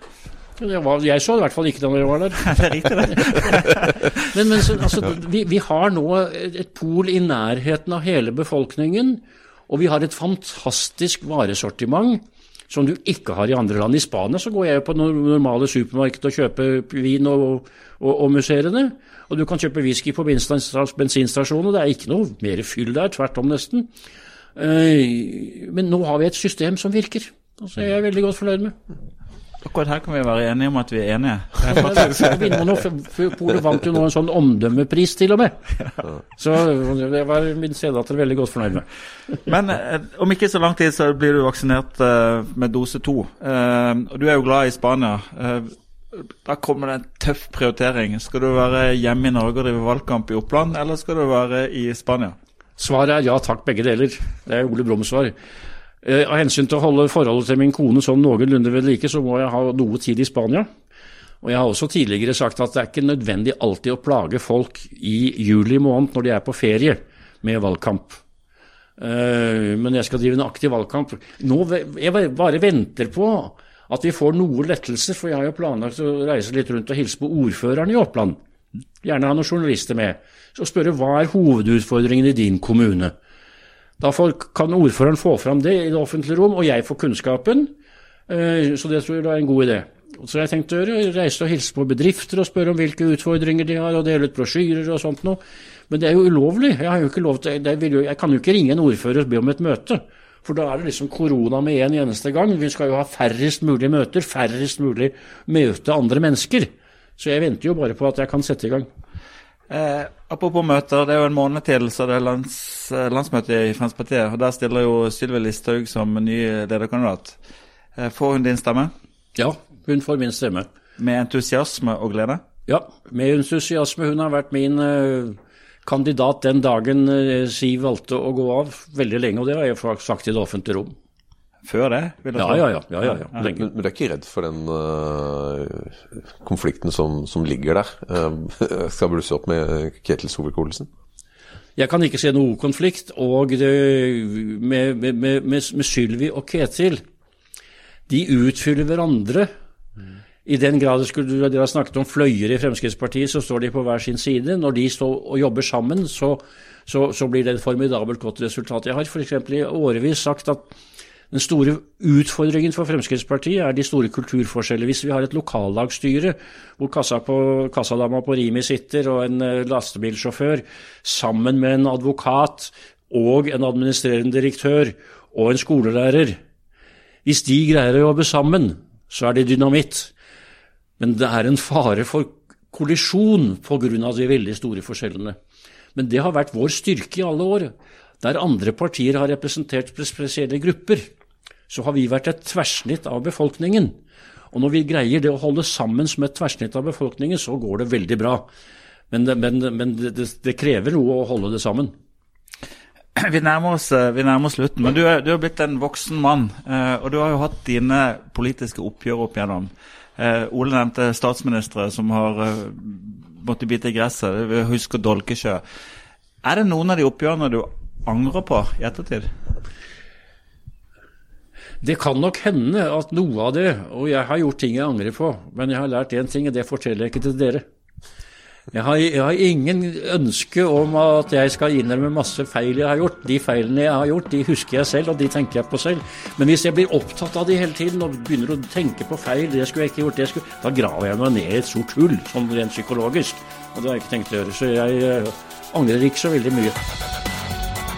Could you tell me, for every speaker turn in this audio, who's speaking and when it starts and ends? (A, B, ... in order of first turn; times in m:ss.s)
0:00.6-0:02.4 A
0:02.4-0:04.1 B
0:04.2-0:23.9 A
0:24.6-0:28.7 A
0:29.6-0:32.6 B
0:31.7-0:35.6 A
0:36.4-0:38.9 A
0:39.4-0:52.4 B
0:52.8-0:55.3 A
0:56.0-1:00.7 A
1:01.4-1:08.2 A
1:09.0-1:18.4 A
1:19.0-1:23.1 A
1:24.0-1:27.7 A
1:28.3-1:48.9 A
1:49.7-1:57.4 B
1:58.0-1:58.9 B
1:59.4-2:00.7 A
2:01.0-2:02.4 B
2:02.7-2:10.9 A
2:11.6-2:12.8 B
2:12.4-2:13.6 A
2:13.4-2:20.9 C
2:21.8-2:27.0 A
2:28.1-2:29.5 A
2:30.4-2:40.7 A
2:41.3-2:56.4 A
2:57.2-3:00.1 A
3:01.0-3:05.4 A
3:05.9-3:11.1 A
3:11.7-3:14.0 A
3:14.5-3:18.5 A
3:19.1-3:21.9 A
3:23.2-3:35.6 B
3:36.4-3:39.3 B
3:41.8-3:47.6 A
3:48.7-4:06.8 A